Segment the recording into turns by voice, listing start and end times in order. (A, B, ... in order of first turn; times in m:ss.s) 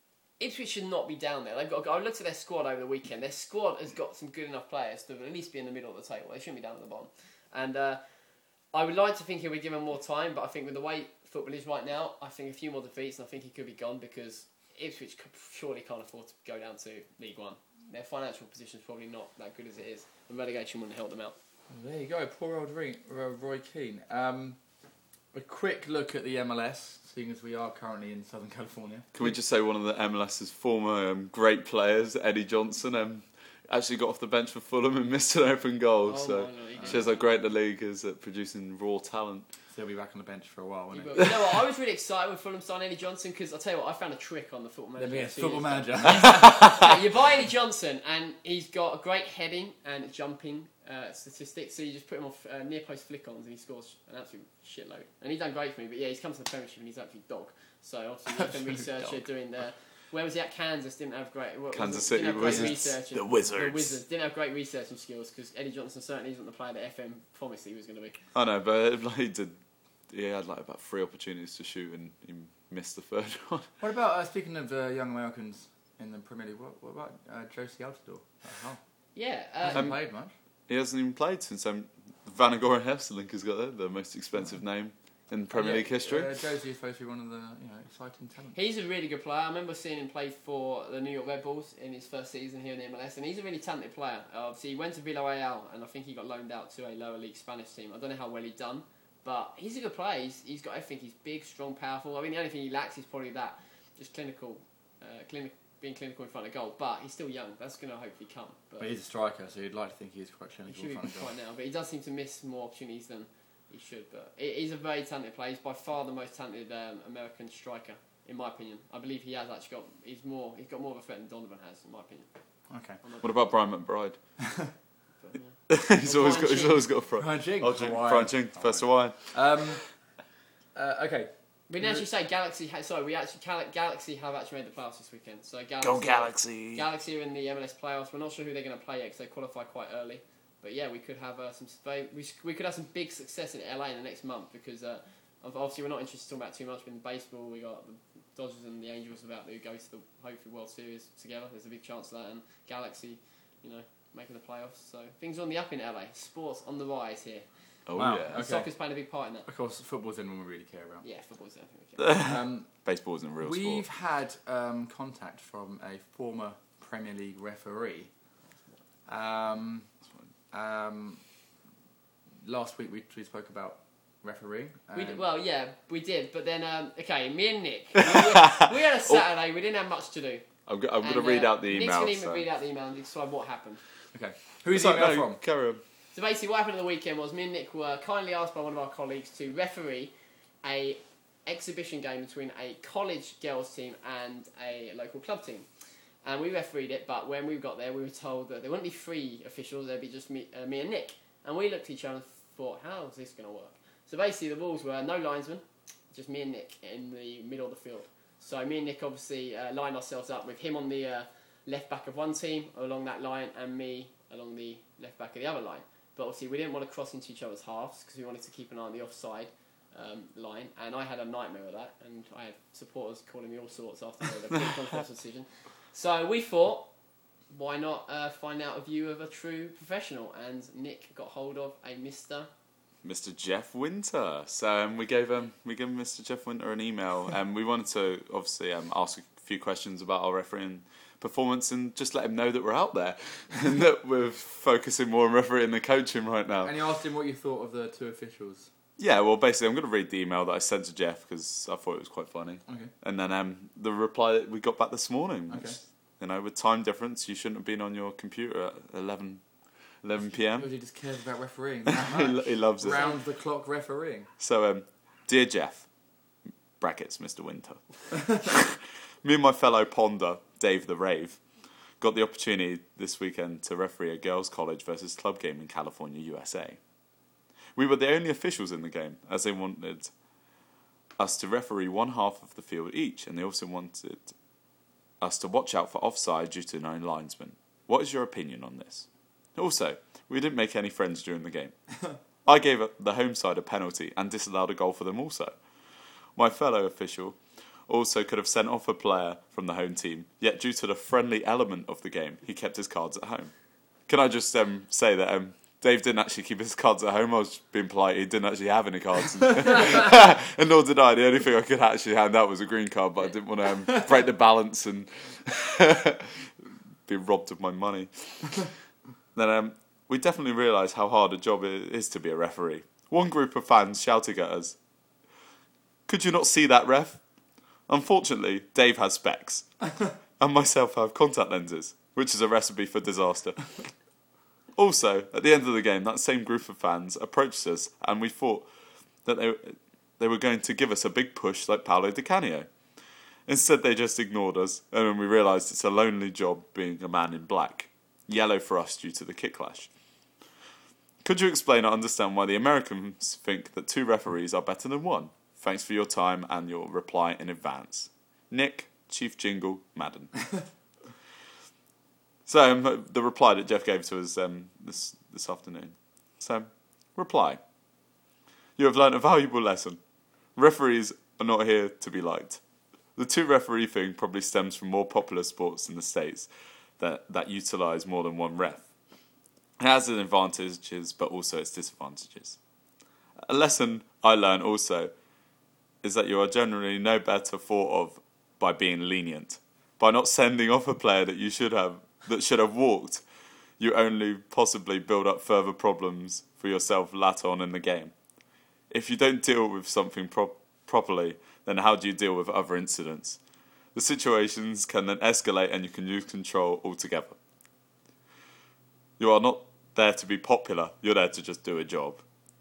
0:00.4-0:08.0 A
0:08.7-0:21.4 A
0:21.7-0:29.3 B
0:29.1-0:39.5 C
0:36.0-0:37.2 A
0:36.7-0:37.1 B
0:39.7-0:41.3 B
0:40.9-1:08.2 A
0:45.0-0:46.7 B
0:58.3-0:59.2 B
1:01.7-1:04.0 C
1:02.4-1:02.8 B
1:08.3-1:13.7 C
1:13.8-1:20.3 B
1:19.1-1:19.9 A
1:19.7-1:26.3 C
1:24.4-1:24.6 B
1:25.5-1:28.6 B
1:28.5-1:48.9 A
1:48.8-1:51.3 B
1:50.7-2:03.4 A
2:02.7-2:03.0 B
2:03.2-2:04.3 C
2:05.2-2:06.9 A
2:05.7-2:09.7 C
2:07.2-2:10.1 B
2:10.7-2:12.0 B
2:11.7-2:39.5 A
2:15.8-2:16.8 C
2:37.8-2:38.4 C
2:38.0-2:38.7 B
2:39.4-2:41.0 B
2:41.0-2:42.2 A
2:42.0-2:43.8 C
2:42.2-2:42.8 B
2:43.4-2:48.1 B
2:49.1-2:49.9 B
2:50.5-2:51.5 B
2:52.4-2:55.2 B
2:54.9-3:03.8 A
2:58.0-2:59.2 C
3:00.6-3:02.4 C
3:04.1-3:05.4 B
3:04.7-3:05.8 C
3:06.1-3:15.7 A
3:16.2-3:46.9 A
3:47.5-3:52.5 A
3:53.0-4:06.7 C
4:06.6-4:08.7 B
4:09.0-4:20.7 C
4:12.6-4:12.9 B
4:15.5-4:15.8 B
4:20.6-4:24.3 B
4:21.9-4:23.0 C
4:22.9-4:23.2 A
4:24.4-4:25.9 C
4:26.8-4:36.8 C
4:37.7-4:40.1 C
4:41.2-4:44.3 C
4:45.2-5:18.8 C
5:19.3-5:24.8 C
5:26.0-5:27.3 C
5:27.9-5:34.0 C
5:34.7-5:38.7 C
5:39.2-5:42.8 C
5:43.4-5:49.9 C
5:51.2-6:00.7 C
6:02.4-6:07.6 C
6:08.8-6:10.0 C
6:10.5-6:12.6 C
6:13.1-6:18.9 C
6:19.8-6:22.6 C
6:23.4-6:25.1 C
6:26.0-6:33.2 C
6:33.8-6:38.2 C
6:38.9-6:43.4 C
6:43.9-6:47.4 C
6:49.2-6:52.2 C